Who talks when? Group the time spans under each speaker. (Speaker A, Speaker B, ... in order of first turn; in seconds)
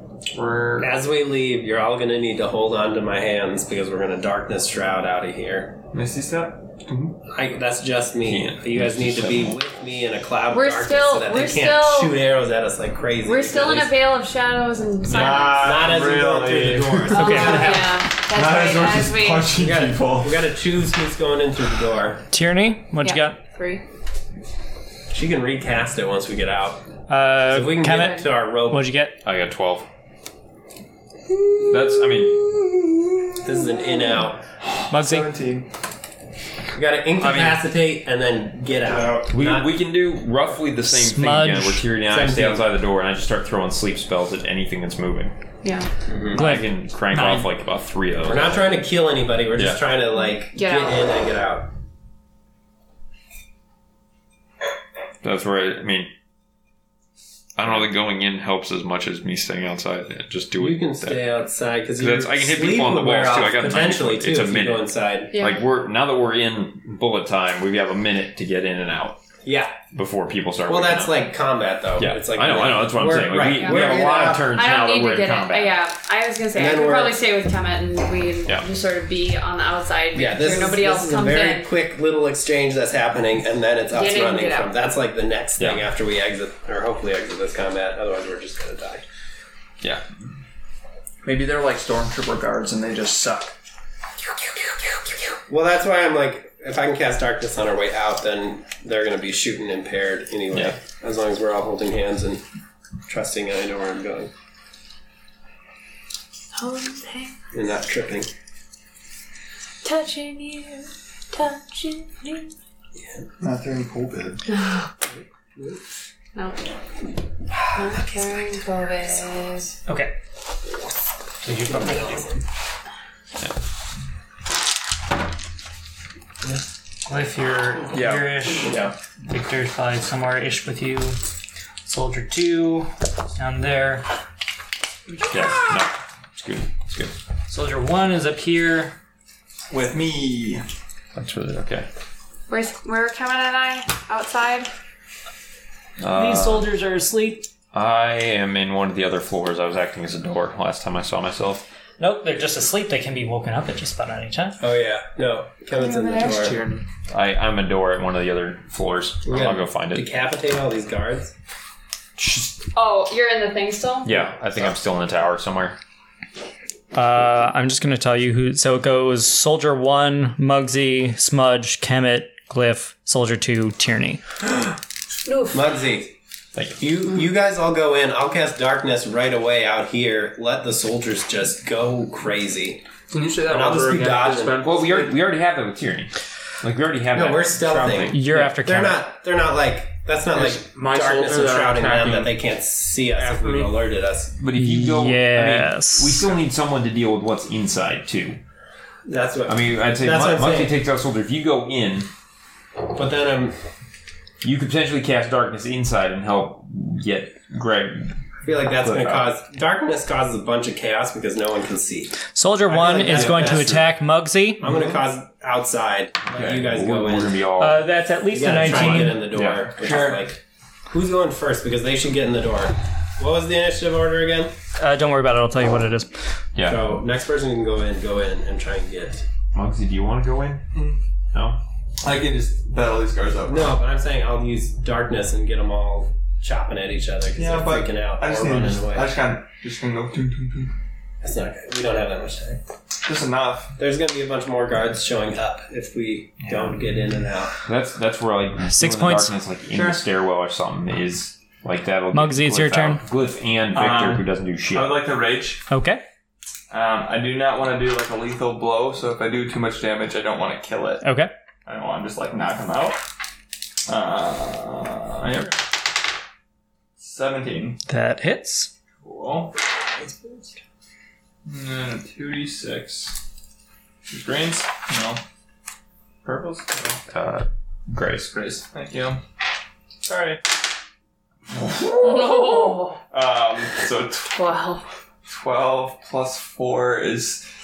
Speaker A: 0.3-0.9, 8.2-9.6, 29.2-29.9, 31.7-32.5, 39.3-45.3, 46.3-48.8, 49.5-49.8, 55.2-56.1, 57.6-61.3, 62.0-64.8, 65.4-69.2, 69.9-71.3, 72.0-75.7, 85.6-85.8, 100.5-100.8, 135.2-137.1, 141.1-141.9, 146.0-146.7, 147.7-151.7, 157.1-160.1, 162.2-162.6, 164.0-165.8, 184.6-188.1, 194.4-198.4, 199.4-202.1, 204.4-208.1, 208.7-209.3, 213.0-213.9, 216.3-217.9, 218.6-219.9, 226.5-226.8, 229.5-230.6, 231.3-231.6, 247.7-255.0, 277.1-278.5
Speaker B: 0.8-5.8, 7.3-13.9, 15.1-17.9, 19.5-22.2, 25.1-26.8, 27.4-28.9, 33.4-34.4, 36.7-39.8, 42.1-42.7, 46.1-46.5, 48.2-51.7, 60.5-65.3, 69.4-69.8, 70.7-74.5, 76.5-77.2, 80.1-89.0, 95.5-102.4, 103.1-104.3, 107.5-108.3, 113.0-113.3, 115.1-115.8, 121.5-122.4, 154.6-156.6, 159.2-161.3, 175.5-176.1, 176.7-182.8, 183.5-184.6, 187.1-194.4, 199.1-200.8, 202.9-203.6, 208.4-213.8, 214.6-217.4, 218.3-220.4, 220.9-224.5, 226.6-229.2, 233.5-239.1, 241.2-242.6, 243.8-247.6, 269.9-270.5
Speaker C: 5.9-7.1, 15.1-17.4, 18.1-20.5, 31.7-32.8, 34.6-35.7, 38.8-39.3, 113.4-114.4, 139.7-140.6, 212.7-213.3, 219.8-220.2, 230.7-231.0, 232.0-233.8, 237.3-240.7, 243.0-243.8, 246.4-247.1, 249.7-250.0, 253.7-255.6, 256.7-263.0, 263.9-265.7, 267.0-267.8, 269.0-269.5, 271.4-273.1, 274.1-275.2, 276.2-277.0, 278.7-279.2, 280.0-280.4, 281.5-284.5, 285.2-287.4
Speaker D: 10.5-12.2, 13.2-15.8, 17.1-19.6, 23.0-23.8, 27.9-28.3, 45.6-45.9, 50.5-51.1, 65.3-65.6, 73.5-81.7, 83.9-84.7, 106.5-107.3, 109.8-112.5, 117.7-119.8, 142.5-144.7, 155.7-156.5, 162.7-164.2, 175.2-175.6, 282.0-283.0, 284.3-284.8
Speaker E: 17.1-17.8, 22.3-23.4, 27.1-29.2, 34.9-35.3, 40.9-41.9, 46.3-47.2, 119.9-120.1, 121.4-122.2, 127.0-131.2, 131.8-134.0, 137.5-138.9, 146.1-147.5, 152.0-154.6, 166.9-174.2, 188.1-189.0, 194.5-196.3, 212.3-214.7, 217.6-219.3, 224.8-226.1, 248.7-249.3, 252.1-253.0, 255.7-256.0, 261.0-261.3, 267.9-268.7
Speaker F: 37.2-37.6, 91.2-93.5, 127.9-128.9, 156.2-156.8, 183.1-185.1, 188.2-188.6, 190.3-192.3, 193.1-193.7, 278.3-278.6